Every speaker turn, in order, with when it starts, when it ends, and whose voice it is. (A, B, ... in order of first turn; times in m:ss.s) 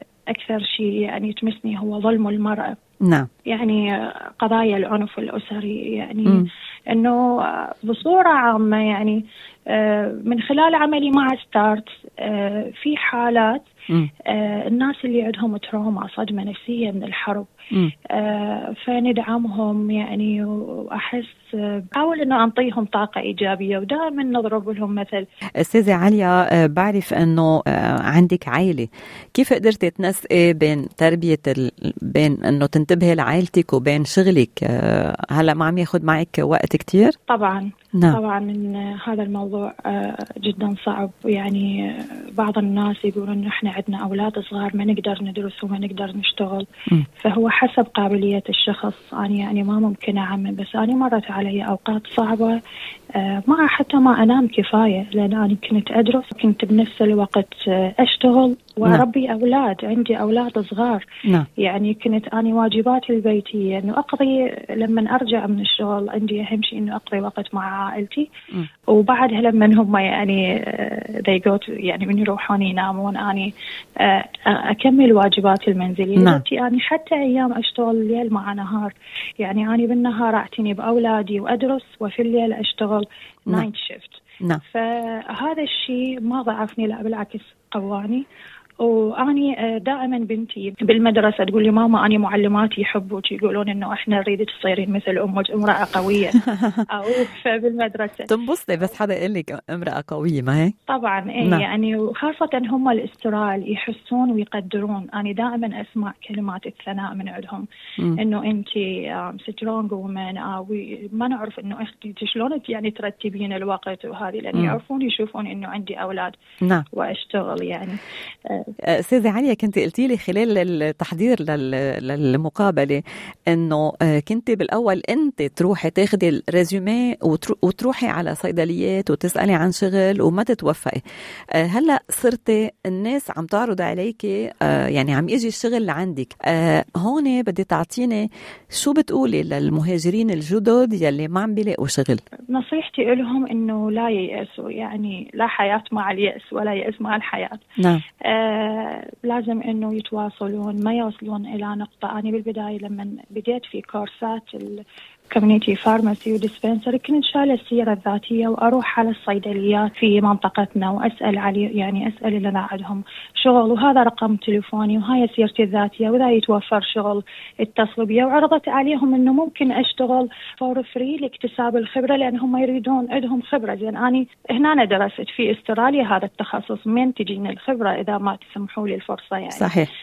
0:00.3-0:02.7 A
0:03.0-0:03.3 B
0:03.5-0:13.7 A
0:14.2-0:17.5 A
0:18.1-0:25.2 A
0:25.6-0:37.2 B
0:37.3-0:46.7 A
0:47.2-0:52.6 A
0:53.2-1:01.0 A
1:01.6-1:08.3 A
1:08.9-1:28.2 A
1:16.2-1:16.4 B
1:28.8-1:38.3 A
1:36.5-1:36.8 B
1:38.3-1:40.7 B
1:40.9-1:56.3 A
1:56.9-1:58.7 A
1:58.8-2:11.0 B
2:11.5-2:22.2 B
2:22.5-2:27.6 A
2:28.2-2:59.7 A
2:59.5-2:59.9 B